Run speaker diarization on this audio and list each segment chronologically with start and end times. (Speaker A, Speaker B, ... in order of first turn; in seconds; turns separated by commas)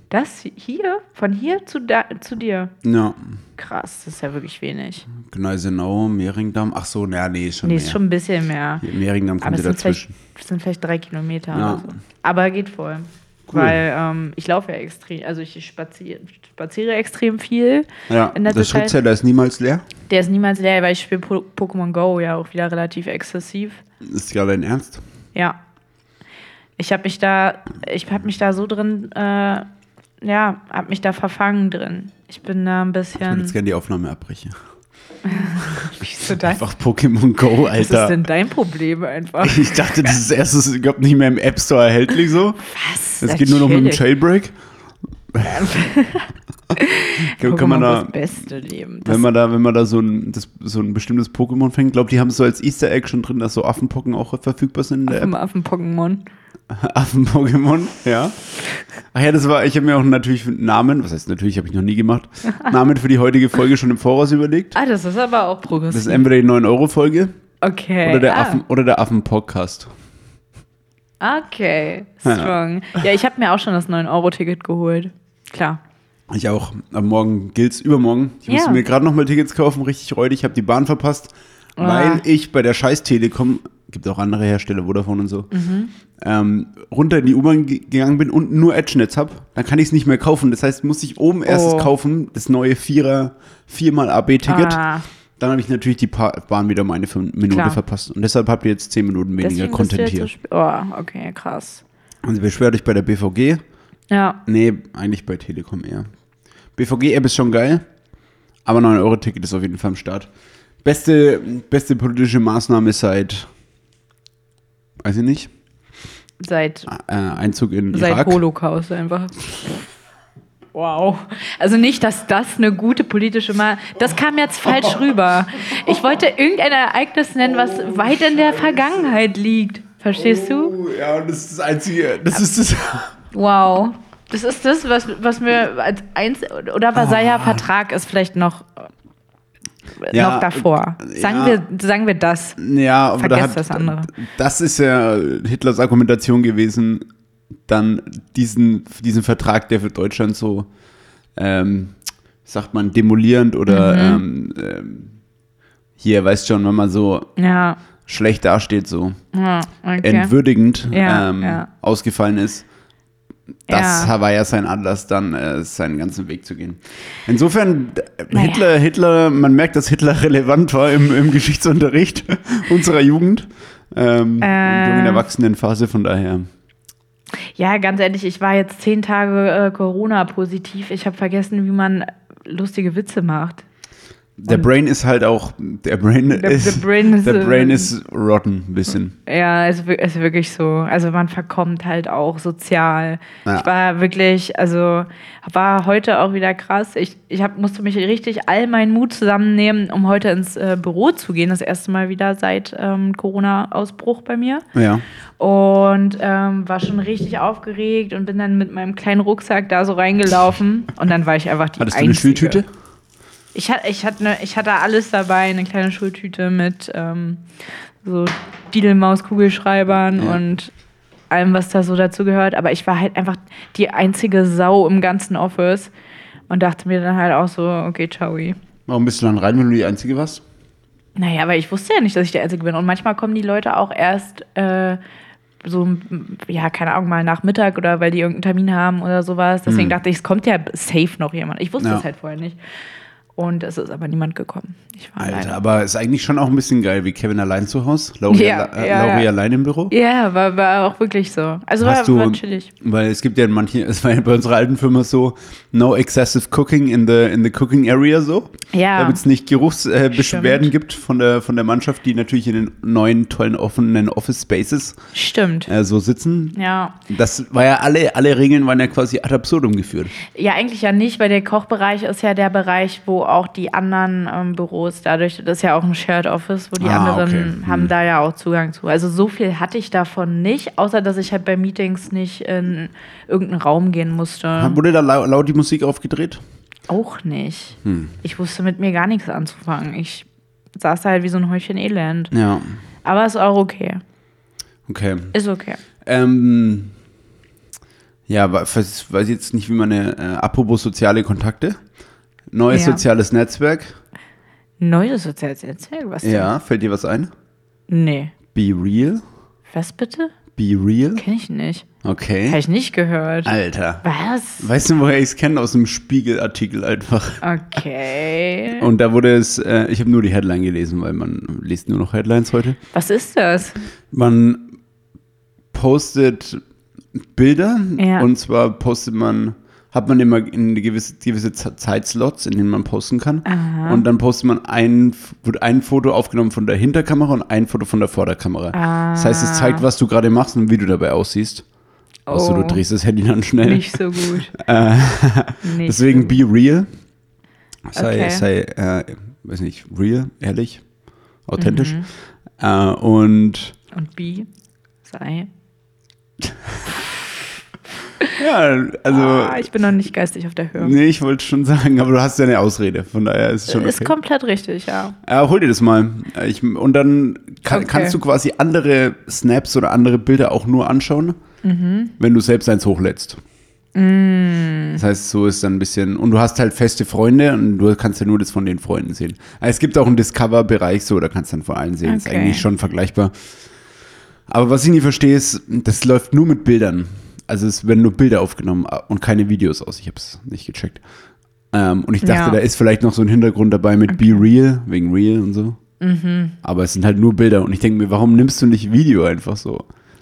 Speaker A: 0.1-2.7, Speaker B: 2.8-3.3, Speaker A: 3.6-5.1, Speaker B: 5.2-8.0, Speaker A: 7.6-8.9, Speaker B: 8.8-10.1, Speaker A: 9.4-18.9, Speaker B: 11.5-11.9, Speaker B: 13.5-13.8, Speaker B: 18.1-19.9, Speaker A: 20.1-23.8, Speaker B: 24.0-25.0, Speaker A: 26.8-29.7, Speaker A: 30.2-33.5, Speaker B: 33.2-34.6, Speaker A: 35.2-36.6, Speaker B: 36.4-38.2, Speaker A: 37.7-40.1, Speaker B: 39.4-42.6, Speaker A: 42.6-44.0, Speaker B: 43.2-44.5, Speaker B: 45.3-45.7, Speaker A: 45.4-49.2, Speaker B: 47.3-48.1, Speaker B: 49.0-55.3, Speaker A: 55.1-56.2, Speaker B: 56.7-58.4, Speaker B: 59.1-64.8, Speaker A: 64.8-66.3, Speaker B: 65.9-67.3, Speaker A: 67.6-68.6, Speaker B: 68.0-69.9, Speaker A: 71.2-75.8, Speaker B: 72.2-72.5, Speaker B: 76.3-85.5, Speaker A: 78.5-78.8, Speaker A: 81.8-82.2, Speaker A: 85.5-85.9, Speaker B: 86.2-94.8, Speaker A: 91.5-91.9, Speaker A: 94.5-95.1, Speaker B: 95.4-100.3, Speaker A: 97.5-97.8, Speaker A: 99.4-101.8, Speaker B: 102.2-103.6, Speaker A: 104.1-104.4, Speaker B: 104.5-106.1, Speaker B: 106.8-107.8, Speaker B: 108.7-110.3, Speaker B: 110.8-113.5, Speaker B: 115.0-115.5, Speaker A: 116.4-116.9, Speaker B: 116.9-118.4, Speaker A: 117.9-119.8, Speaker A: 120.7-130.8, Speaker B: 127.4-129.1, Speaker B: 130.1-133.1, Speaker A: 133.3-138.9, Speaker B: 136.9-137.7, Speaker A: 140.0-142.6, Speaker B: 140.1-141.6, Speaker B: 142.6-147.1, Speaker A: 143.2-144.1, Speaker B: 147.7-150.7, Speaker B: 151.4-155.1, Speaker A: 153.7-154.2, Speaker B: 156.0-157.3, Speaker A: 157.4-157.8, Speaker B: 158.1-159.2, Speaker A: 159.3-160.3, Speaker B: 160.0-162.7, Speaker A: 160.9-161.7, Speaker A: 163.7-164.1, Speaker B: 163.7-176.4, Speaker A: 168.3-168.7, Speaker A: 174.4-175.3, Speaker A: 177.6-183.7, Speaker B: 184.4-189.2, Speaker A: 186.3-187.9, Speaker A: 189.2-204.7, Speaker B: 204.8-205.1, Speaker A: 205.4-212.6, Speaker B: 211.8-212.7, Speaker A: 213.5-217.4, Speaker A: 218.0-220.7, Speaker B: 220.2-220.4, Speaker A: 221.3-225.9, Speaker A: 226.5-228.6, Speaker B: 228.9-230.4, Speaker A: 231.2-235.0, Speaker A: 235.6-242.6, Speaker B: 239.7-240.0, Speaker B: 241.8-242.1, Speaker A: 243.4-245.6, Speaker B: 245.2-249.9, Speaker A: 248.3-249.3, Speaker A: 249.9-252.7, Speaker B: 251.8-265.0, Speaker A: 258.7-259.2, Speaker A: 260.1-260.7, Speaker A: 265.1-265.7, Speaker B: 265.7-270.1, Speaker A: 266.6-267.0, Speaker A: 270.3-284.8, Speaker B: 276.8-277.9, Speaker B: 284.6-286.4, Speaker A: 286.9-292.3, Speaker B: 287.8-288.1, Speaker B: 292.3-292.8, Speaker A: 293.1-294.0, Speaker B: 294.9-295.3, Speaker A: 295.3-295.8, Speaker B: 296.0-296.9, Speaker B: 298.3-301.8, Speaker B: 302.5-303.9, Speaker A: 302.7-303.0, Speaker A: 304.8-306.5, Speaker B: 306.2-307.3, Speaker A: 307.9-308.3, Speaker B: 308.5-309.2, Speaker A: 309.7-310.3, Speaker B: 310.6-311.2, Speaker A: 311.2-311.9, Speaker B: 312.0-312.6, Speaker A: 312.5-314.7, Speaker B: 313.5-314.0, Speaker B: 314.6-317.4, Speaker A: 317.4-318.9, Speaker B: 318.8-322.8, Speaker A: 322.9-323.8, Speaker B: 324.1-324.7, Speaker B: 325.7-326.6, Speaker B: 327.2-341.6, Speaker A: 328.0-328.3, Speaker A: 333.5-334.1, Speaker A: 338.7-339.9, Speaker A: 342.3-342.8, Speaker B: 342.3-346.9, Speaker A: 343.6-344.5, Speaker A: 345.6-346.4, Speaker B: 347.9-350.8, Speaker A: 347.9-348.5, Speaker B: 351.5-352.0, Speaker A: 351.6-352.1, Speaker B: 352.6-353.8, Speaker A: 353.9-354.5, Speaker A: 355.1-355.5, Speaker B: 358.4-359.7, Speaker A: 359.1-360.9, Speaker B: 360.8-364.1, Speaker A: 363.7-365.2, Speaker B: 365.2-371.4, Speaker A: 367.7-368.2, Speaker A: 371.6-372.1, Speaker B: 372.2-373.4, Speaker A: 373.9-375.0, Speaker B: 375.0-383.3, Speaker A: 382.1-382.7, Speaker B: 384.5-391.0, Speaker B: 391.7-395.8, Speaker A: 392.2-392.6, Speaker A: 394.1-394.4, Speaker A: 396.0-396.6, Speaker B: 396.6-399.9